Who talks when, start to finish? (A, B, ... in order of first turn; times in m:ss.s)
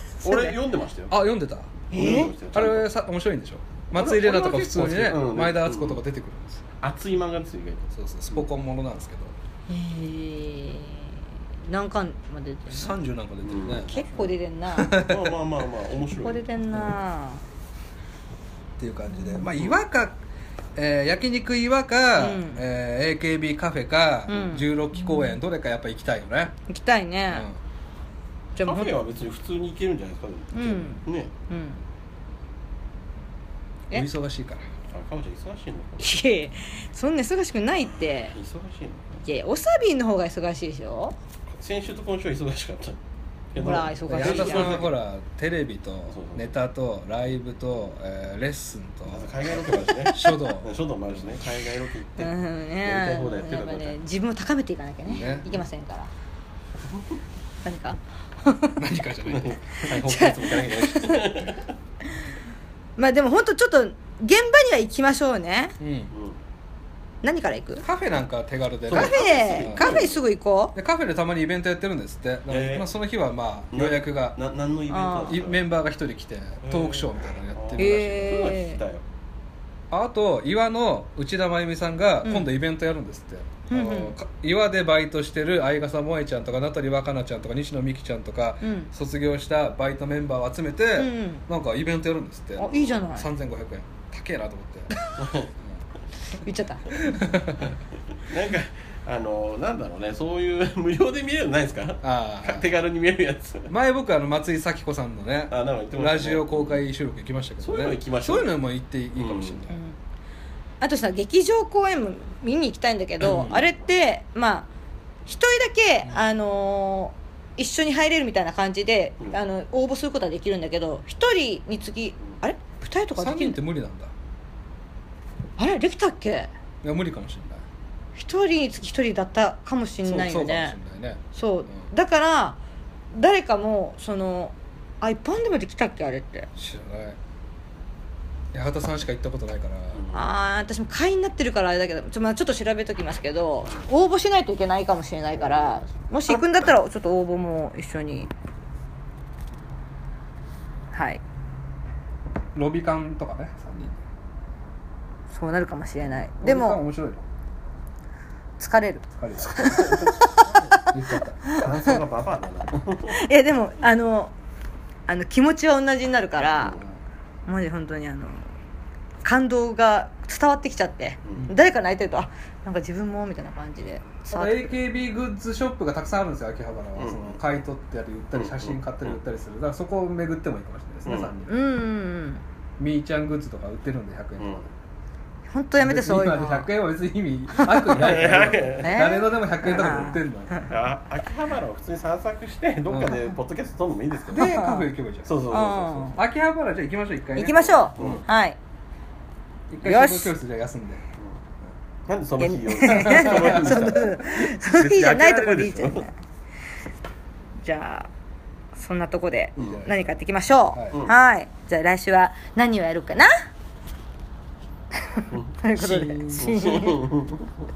0:00.2-0:00.6 A
0:00.2-0:01.1 B
0:01.1-0:01.7 C
0:01.9-0:02.3 A
0:01.9-0:02.9 B
0:02.5-0:06.6 C
0:04.0-0:06.0 B
0:06.8-0:08.5 B
0:07.9-0:09.3 C
0:09.7-0:11.1 A
0:11.7-0:12.9 A
0:12.7-0:13.9 C
0:13.4-0:14.3 B
0:13.9-0:15.0 A
0:14.8-0:15.4 C
0:14.9-0:16.5 B
0:16.2-0:17.4 A
0:18.8-0:20.2 C
0:19.1-0:19.6 A
0:20.8-0:26.6 C
0:22.2-0:22.6 A
0:24.3-0:25.4 A
0:26.7-0:27.5 A
0:27.3-0:27.6 C
0:28.6-0:29.0 A
0:28.6-0:31.3 B
0:30.5-0:31.8 A
0:33.9-0:34.7 C
0:34.9-0:36.1 B
0:36.0-0:38.4 A
0:38.3-0:39.2 B
0:39.2-0:41.2 A
0:41.5-0:43.0 B
0:43.5-0:44.9 B
0:43.6-0:44.9 A
0:44.1-0:50.7 C
0:46.1-0:46.5 B
0:49.1-0:54.0 B
0:52.2-0:56.1 A
0:55.1-0:55.5 B
0:55.2-0:55.5 C
0:57.6-0:58.8 A
0:58.8-0:59.6 C
0:59.3-1:01.7 B
0:59.8-1:01.2 A
1:03.0-1:05.8 A
1:05.8-1:06.1 C
1:06.1-1:06.4 B
1:07.2-1:07.8 A
1:07.8-1:10.1 C
1:08.9-1:10.2 B
1:08.9-1:10.8 A
1:10.8-1:14.4 C
1:12.5-1:12.9 B
1:13.7-1:15.6 B
1:14.9-1:15.4 A
1:15.3-1:18.5 C
1:16.6-1:19.0 B
1:17.8-1:18.8 A
1:19.9-1:35.0 C
1:22.2-1:22.5 A
1:23.7-1:24.2 A
1:28.6-1:28.9 A
1:31.0-1:31.4 A
1:32.6-1:33.3 A
1:35.2-1:35.5 B
1:36.3-1:37.2 A
1:37.0-1:37.7 C
1:38.3-1:43.7 B
1:42.0-1:42.6 C
1:43.7-1:49.8 C
1:45.5-1:46.8 B
1:47.6-1:48.6 B
1:49.2-1:49.6 B
1:49.7-1:50.0 A
1:50.8-1:54.7 A
1:53.2-1:53.7 C
1:55.3-2:03.6 A
2:03.2-2:04.1 C
2:05.6-2:06.5 A
2:06.8-2:07.6 C
2:08.2-2:10.8 A
2:10.0-2:11.8 C
2:11.3-2:12.6 A
2:13.1-2:16.5 A
2:16.6-2:17.2 C
2:18.5-2:20.0 C
2:20.0-2:20.3 B
2:20.1-2:28.3 A
2:25.4-2:26.3 B
2:30.9-2:31.2 A
2:32.6-2:34.0 C
2:35.3-2:36.8 A
2:36.4-2:37.2 C
2:38.6-2:42.0 A
2:39.2-2:40.2 C
2:39.7-2:40.8 B
2:40.8-2:41.6 C
2:41.5-2:43.2 B
2:43.1-2:44.3 A
2:45.1-2:46.8 A
2:46.6-2:46.9 C
2:47.5-2:48.5 A
2:49.2-2:54.7 A
2:54.3-3:01.5 C
2:57.0-2:57.4 B
2:58.4-2:59.2 B
3:01.1-3:01.3 B
3:01.5-3:02.4 A
3:02.8-3:04.6 C
3:04.4-3:04.7 B
3:05.5-3:06.7 A
3:05.8-3:10.5 C
3:07.6-3:08.0 A
3:07.9-3:08.9 B
3:08.8-3:10.7 A
3:10.7-3:14.6 B
3:12.9-3:13.2 C
3:14.3-3:14.9 A
3:14.3-3:15.3 C
3:15.2-3:16.1 B
3:15.5-3:16.2 A
3:16.2-3:18.2 C
3:17.4-3:18.6 A
3:18.0-3:18.2 B
3:19.7-3:21.0 C
3:19.8-3:20.3 A
3:22.1-3:26.1 B
3:22.4-3:26.1 A
3:22.9-3:24.0 C
3:27.6-3:28.1 A
3:28.8-3:33.3 A
3:29.6-3:29.8 B
3:29.6-3:30.0 C
3:35.1-3:37.1 A
3:35.8-3:36.4 C
3:36.4-3:37.5 B